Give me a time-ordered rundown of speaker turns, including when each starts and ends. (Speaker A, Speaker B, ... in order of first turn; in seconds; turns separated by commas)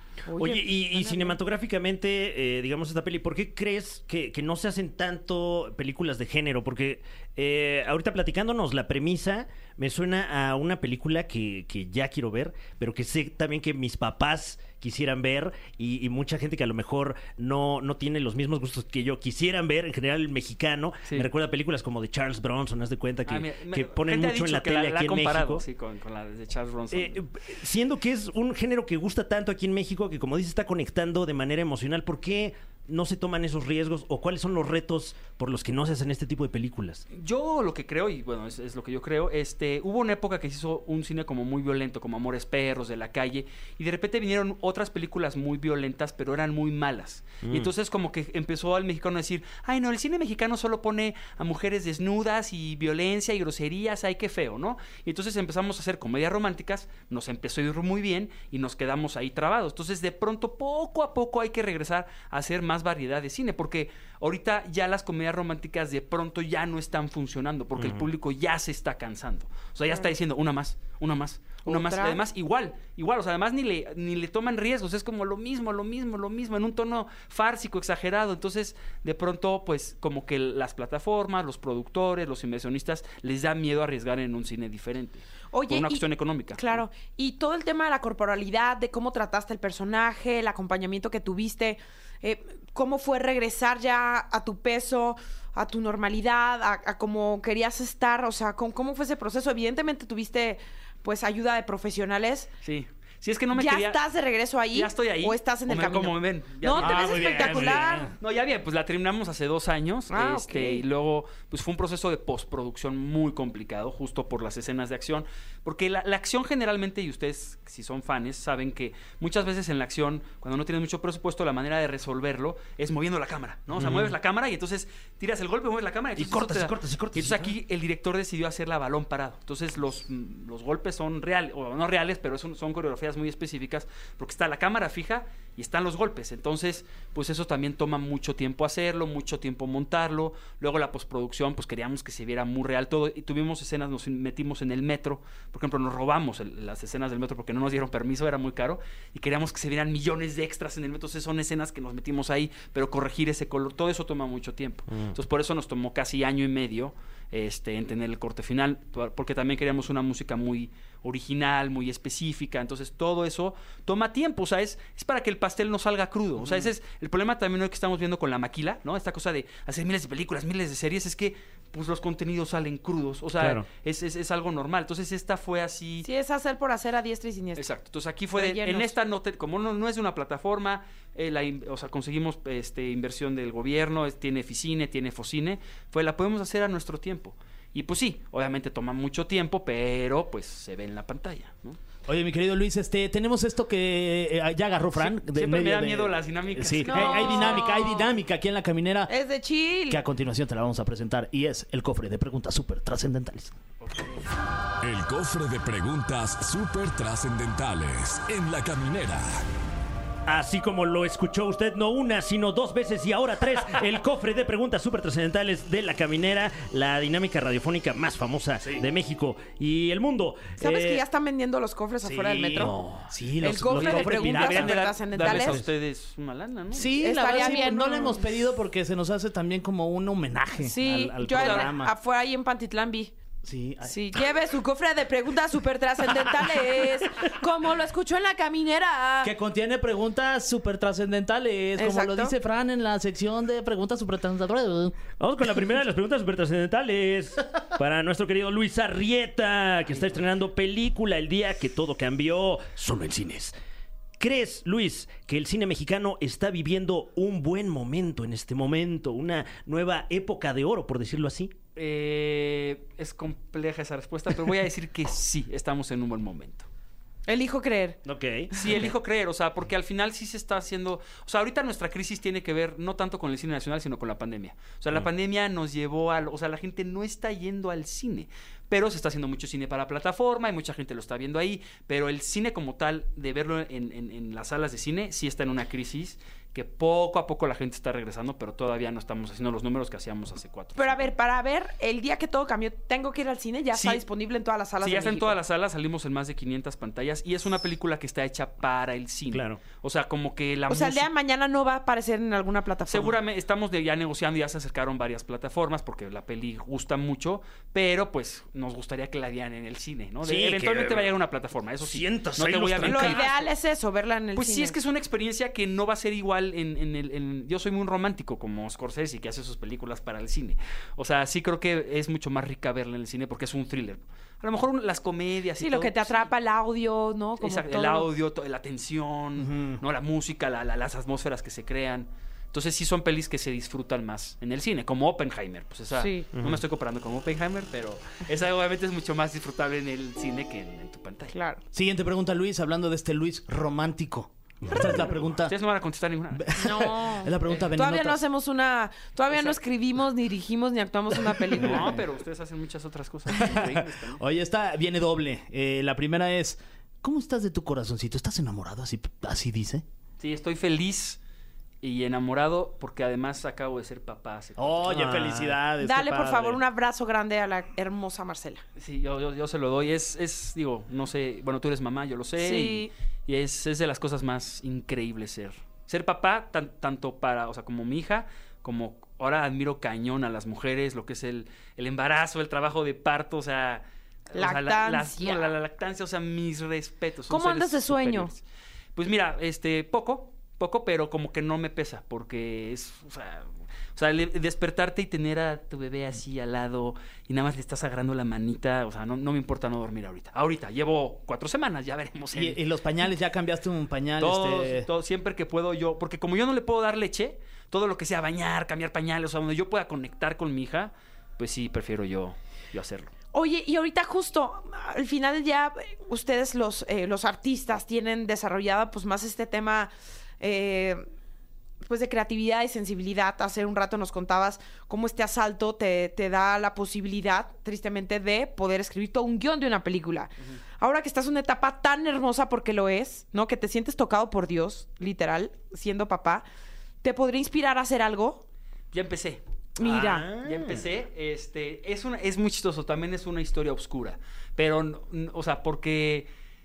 Speaker A: 0.3-1.4, Speaker B: 0.4-25.6, Speaker C: 23.2-27.2, Speaker B: 26.9-37.0, Speaker C: 37.1-86.8, Speaker B: 47.4-47.7, Speaker B: 67.8-68.1, Speaker A: 71.7-72.2, Speaker A: 85.5-86.0, Speaker A: 86.5-102.5, Speaker C: 102.6-104.0, Speaker A: 103.5-108.1, Speaker C: 104.7-176.1, Speaker D: 106.8-108.1, Speaker A: 110.1-110.8, Speaker B: 123.8-124.2, Speaker B: 126.2-127.5, Speaker B: 166.4-166.7, Speaker B: 173.4-173.7, Speaker A: 176.0-177.7, Speaker C: 177.6-191.8, Speaker A: 178.4-178.9, Speaker D: 192.1-199.1, Speaker C: 194.9-197.7, Speaker A: 196.9-198.1, Speaker A: 199.1-200.0, Speaker D: 199.9-203.5, Speaker C: 203.8-204.2, Speaker E: 204.8-209.4, Speaker B: 210.3-221.0, Speaker A: 220.6-222.8, Speaker D: 222.1-224.8, Speaker B: 222.6-223.0, Speaker A: 223.4-225.6, Speaker B: 223.7-225.7, Speaker C: 223.7-227.4, Speaker D: 226.7-231.9, Speaker A: 227.0-228.3, Speaker A: 230.6-233.1, Speaker C: 231.3-231.7, Speaker D: 233.4-234.2, Speaker A: 233.8-239.3, Speaker D: 239.2-245.0, Speaker A: 241.8-242.3, Speaker B: 245.2-253.5, Speaker B: 254.2-261.5, Speaker C: 261.8-266.7, Speaker A: 267.3-268.0, Speaker B: 268.1-268.9, Speaker C: 268.5-291.1, Speaker A: 290.8-295.4, Speaker C: 293.7-294.0, Speaker C: 294.8-301.1, Speaker B: 299.3-299.6, Speaker A: 300.7-303.2, Speaker C: 302.9-313.5, Speaker B: 310.2-311.2, Speaker B: 311.8-313.3, Speaker A: 312.8-314.8, Speaker C: 314.4-326.3, Speaker A: 325.6-328.1, Speaker C: 327.4-341.3, Speaker D: 329.4-329.8, Speaker A: 335.9-336.3, Speaker B: 336.4-336.6, Speaker A: 341.3-341.6, Speaker D: 341.7-345.5, Speaker C: 344.7-346.6, Speaker B: 344.7-345.1, Speaker D: 346.3-348.2, Speaker A: 346.5-352.0, Speaker C: 351.5-354.2, Speaker D: 351.6-352.0, Speaker D: 353.3-359.8, Speaker C: 360.2-361.2, Speaker C: 361.8-365.1, Speaker D: 364.6-366.6, Speaker B: 364.8-365.6, Speaker A: 365.8-368.6, Speaker C: 368.8-388.4, Speaker A: 372.4-372.9, Speaker A: 384.3-385.5, Speaker A: 387.3-388.3, Speaker C: 389.0-402.6, Speaker D: 402.3-404.9, Speaker C: 404.2-413.1, Speaker A: 413.3-421.0, Speaker A: 421.8-436.4, Speaker A: 437.0-438.4, Speaker C: 438.9-446.3, Speaker A: 439.8-440.3, Speaker B: 439.8-440.9